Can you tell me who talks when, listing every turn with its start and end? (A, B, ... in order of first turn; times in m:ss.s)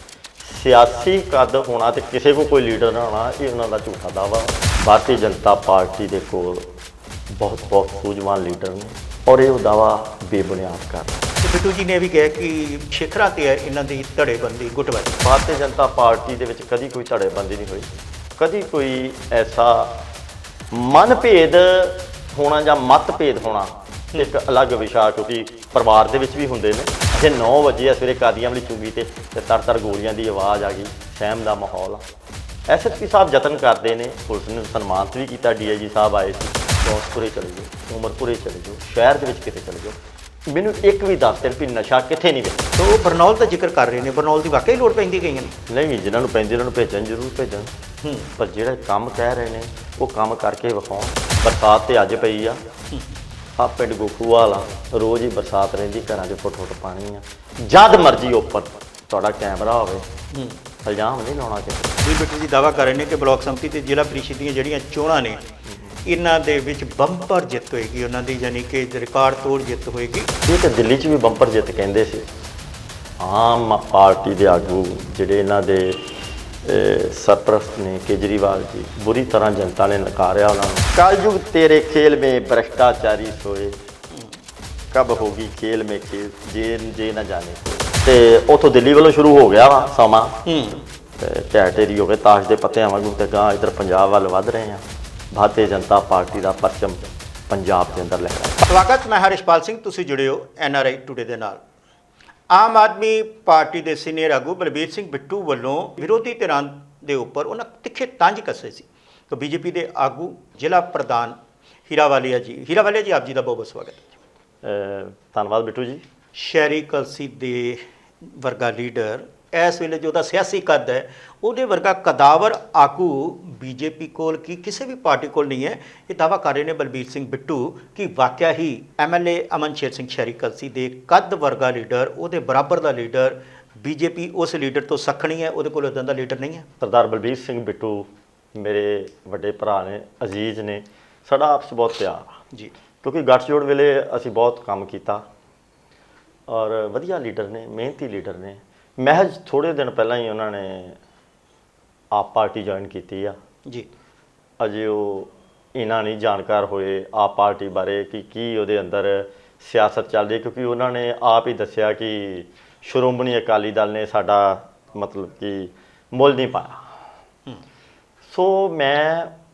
0:00.4-0:06.7 A
0:07.3-0:11.2 A
0:11.4-0:15.2 B
0:15.2-0:20.0 A
0:20.7-0:32.0 A
0:32.7-0:40.0 A
0:40.5-0:42.7 A
0:42.8-0:45.6 B
0:45.7-0:47.7 A
0:48.0-0:48.3 B
0:48.4-0:52.6 A
0:53.6-1:00.0 A
1:00.3-1:00.6 B
1:00.8-1:02.0 A
1:02.0-1:05.4 B
1:06.0-1:10.3 B
1:10.4-1:12.2 A
1:13.2-1:16.1 A
1:16.6-1:23.8 A
1:24.9-1:30.4 A
1:30.4-1:30.8 B
1:31.2-1:38.7 A
1:38.6-1:41.6 B
1:42.5-1:51.4 B
1:51.9-1:54.1 B
1:54.6-1:56.0 A
1:56.3-2:16.7 B
2:16.8-2:22.4 A
2:23.0-2:25.2 A
2:26.5-2:31.0 A
2:32.1-2:33.3 A
2:34.6-2:46.9 A
2:48.3-2:49.3 A